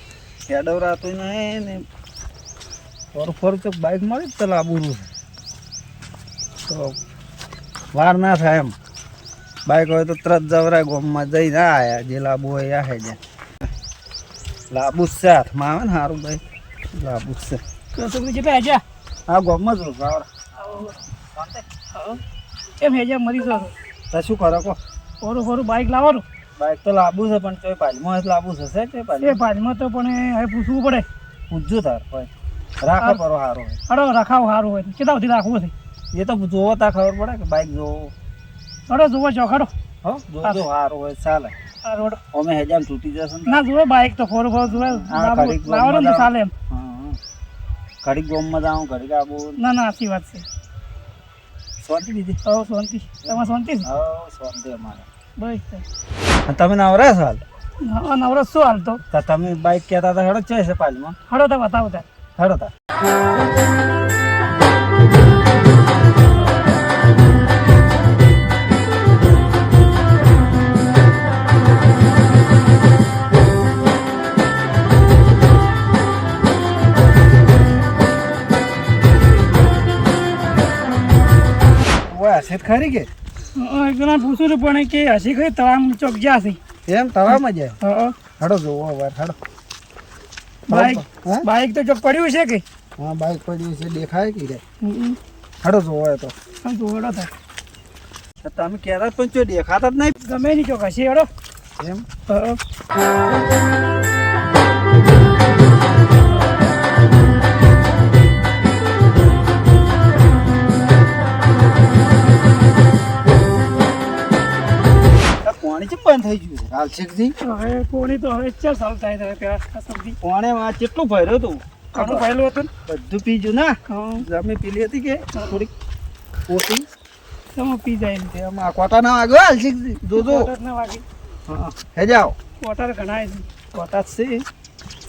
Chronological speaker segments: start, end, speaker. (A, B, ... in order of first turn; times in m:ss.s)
0:00.5-0:01.8 A
0:03.1-0:05.1 A
0:06.7-0:07.0 A
0:07.9-0:08.8 A
0:09.7-0:13.2 A
0:14.7-0:16.4 A
0:16.9-0:17.6 A
0:18.0-0:18.8 B
0:19.3-0:21.7 A
0:20.6-0:21.0 B
0:21.9-0:22.2 B
0:22.8-0:23.7 B
0:24.1-0:24.8 A
0:25.2-0:26.2 B
0:26.6-0:29.4 A
0:29.2-0:31.1 B
0:31.5-0:32.3 A
0:32.8-0:33.8 A
0:33.9-0:35.7 B
0:36.1-0:38.1 A
0:38.9-0:39.7 B
0:40.0-0:41.5 A
0:41.8-0:42.2 B
0:42.3-0:43.6 A
0:43.5-0:46.5 B
0:44.7-0:47.2 A
0:48.0-0:49.6 A
0:49.6-0:50.4 B
0:51.8-0:52.4 A
0:52.4-0:53.9 B
0:53.2-0:55.1 A
0:55.4-0:55.8 B
0:56.5-0:57.4 A
0:57.8-0:59.0 B
0:59.1-1:01.2 A
1:01.3-1:02.0 B
1:02.4-1:02.7 A
1:22.1-1:23.1 A
1:23.6-1:26.6 B
1:26.9-1:27.8 A
1:27.3-1:28.2 B
1:28.4-1:29.4 A
1:30.7-1:32.6 B
1:30.7-1:31.5 A
1:33.0-1:34.6 A
1:34.8-1:35.2 B
1:35.6-1:36.4 A
1:36.6-1:37.3 B
1:38.4-1:40.2 A
1:40.2-1:41.3 B
1:41.8-1:42.0 A
1:42.3-1:42.6 B
1:55.4-1:57.3 A
1:57.4-2:00.2 B
2:00.2-2:02.3 A
2:01.9-2:02.7 B
2:02.8-2:05.7 A
2:03.9-2:04.2 B
2:06.5-2:06.8 A
2:07.5-2:08.3 B
2:08.3-2:10.5 A
2:10.2-2:11.0 B
2:11.5-2:12.4 A
2:12.6-2:13.5 B
2:13.7-2:14.4 A